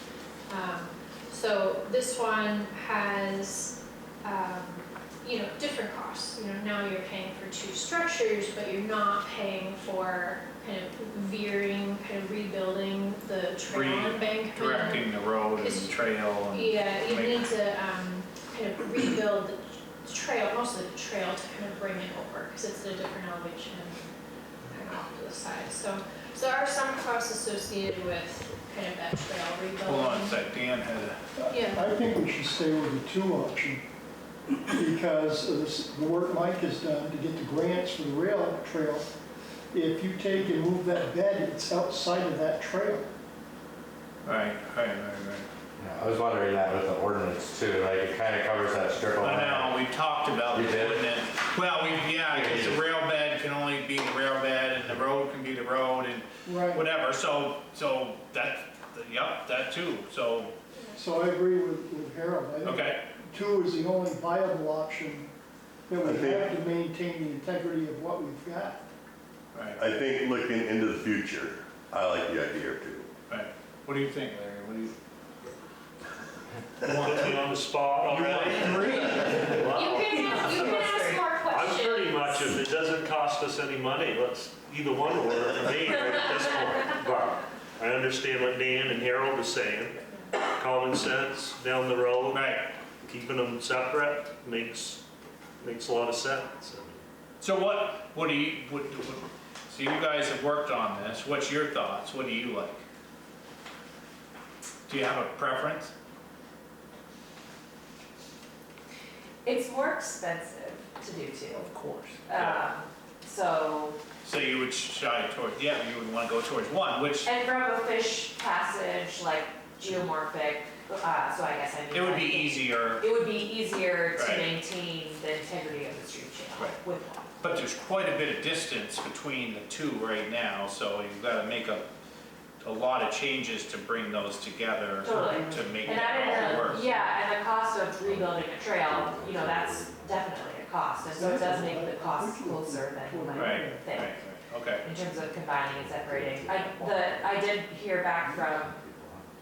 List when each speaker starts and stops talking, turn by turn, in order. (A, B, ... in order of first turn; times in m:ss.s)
0:00.5-0:16.0 A
0:13.7-0:17.5 B
0:16.5-0:24.1 A
0:24.7-0:30.4 A
0:29.8-0:31.2 B
0:31.4-0:33.8 C
0:31.5-0:31.9 A
0:34.7-0:39.1 C
0:39.7-0:43.1 C
0:44.2-0:45.5 B
0:45.8-0:49.8 D
0:49.2-1:00.5 B
0:50.5-0:51.1 D
0:52.3-0:52.8 D
0:56.4-0:56.8 C
1:01.0-1:05.3 C
1:02.6-1:03.0 B
1:05.9-1:08.8 C
1:06.0-1:06.5 E
1:09.5-1:09.8 B
1:09.8-1:13.1 E
1:13.3-1:15.0 B
1:16.8-1:19.9 B
1:17.0-1:20.6 F
1:19.0-1:21.2 G
1:19.7-1:22.6 A
1:21.5-1:32.4 F
1:32.3-1:32.7 B
1:33.0-1:35.0 F
1:35.6-1:37.0 F
1:37.4-1:42.8 B
1:44.9-1:45.9 B
1:49.4-1:51.7 G
1:51.5-1:52.7 B
1:52.3-1:54.0 G
1:54.2-1:57.3 B
1:57.2-2:07.6 G
2:01.9-2:03.1 B
2:04.2-2:04.5 B
2:07.4-2:11.9 B
2:12.6-2:16.9 B
2:15.0-2:24.2 G
2:16.2-2:16.6 E
2:18.0-2:20.2 D
2:21.2-2:23.9 C
2:23.4-2:24.9 B
2:24.8-2:28.7 G
2:25.7-2:27.4 D
2:28.2-2:29.3 D